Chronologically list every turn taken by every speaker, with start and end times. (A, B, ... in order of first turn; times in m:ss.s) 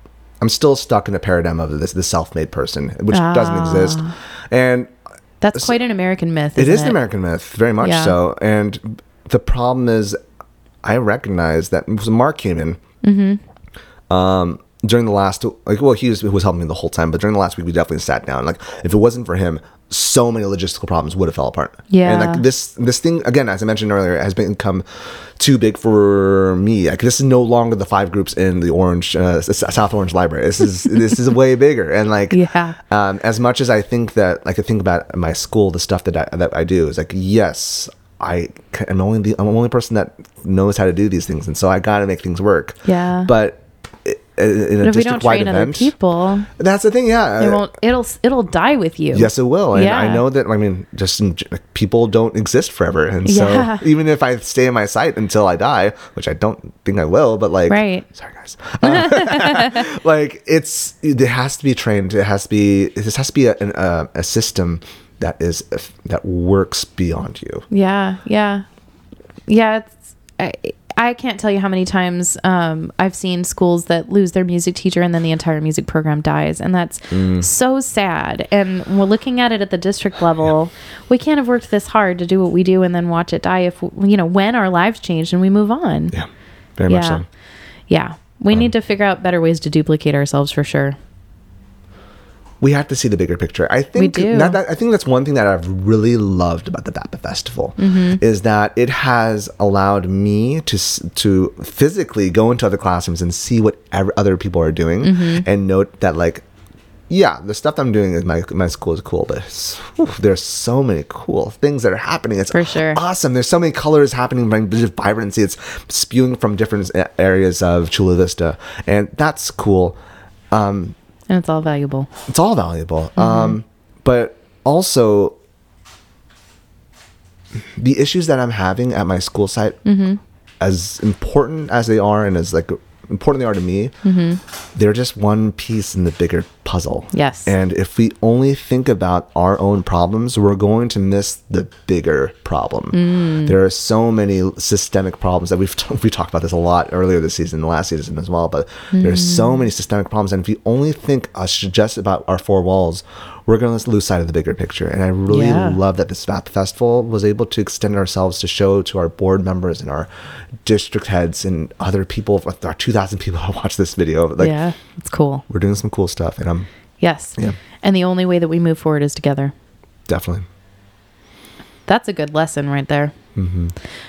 0:00.4-0:04.9 A
0:03.1-0:04.1 B
0:05.4-0:07.0 B
0:06.6-0:10.2 A
0:07.8-0:08.1 B
0:10.8-0:12.8 A
0:13.0-0:13.4 B
0:14.1-0:45.9 A
0:21.9-0:22.4 B
0:32.3-0:32.8 B
0:42.8-0:43.3 B
0:44.8-0:46.5 B
0:46.6-0:47.6 A
0:47.4-0:50.2 B
0:49.1-1:07.6 A
0:53.2-0:53.8 B
0:57.7-0:58.1 B
0:58.8-0:59.8 B
1:07.7-1:08.6 B
1:09.5-1:26.1 B
1:17.1-1:17.4 A
1:26.1-1:27.2 A
1:26.9-1:27.2 B
1:27.9-1:31.0 B
1:32.6-1:46.4 A
1:34.0-1:34.6 B
1:37.8-1:38.2 B
1:45.0-1:45.4 B
1:47.1-2:00.0 A
1:52.5-1:53.0 B
2:00.5-2:00.9 A
2:01.3-2:02.1 B
2:02.3-2:05.4 A
2:03.2-2:03.6 B
2:07.8-2:09.8 A
2:09.8-2:10.2 B
2:10.6-2:13.9 A
2:14.0-2:14.4 B
2:14.7-2:40.1 A
2:17.1-2:17.5 B
2:22.9-2:23.5 B
2:28.9-2:29.6 B
2:35.3-2:35.8 B
2:40.6-2:44.5 A
2:44.4-2:45.4 B
2:45.5-2:46.7 A
2:47.0-2:49.5 B
2:50.1-2:50.4 A
2:51.9-2:53.1 B
2:53.4-2:53.7 A